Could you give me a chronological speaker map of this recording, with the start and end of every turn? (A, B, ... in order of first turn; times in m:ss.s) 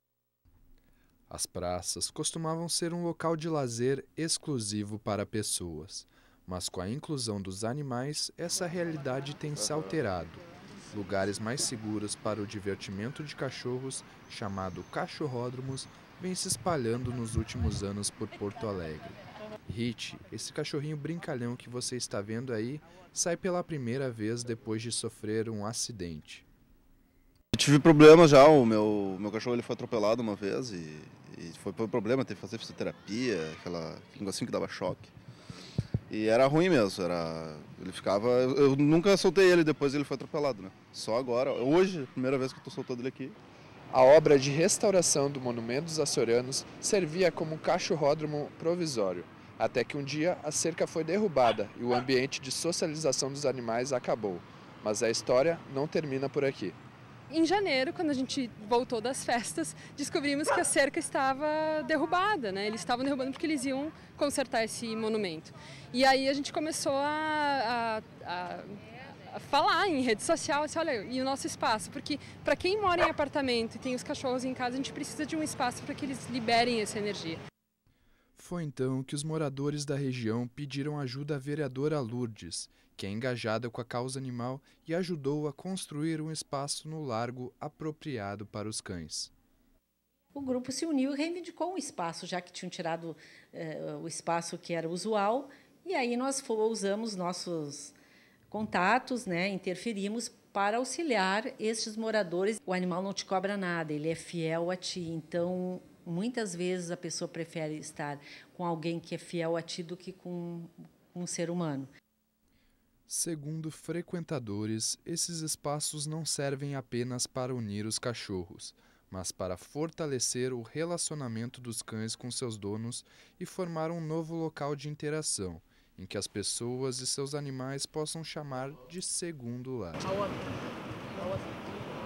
0:01.3-0:26.4 A
0:27.5-0:35.1 B
0:36.1-0:43.4 B
0:43.9-0:56.8 A
0:57.3-1:08.8 C
1:09.3-1:17.4 C
1:18.4-1:29.3 A
1:30.3-1:37.9 D
1:38.5-1:51.9 D
1:53.1-2:10.0 A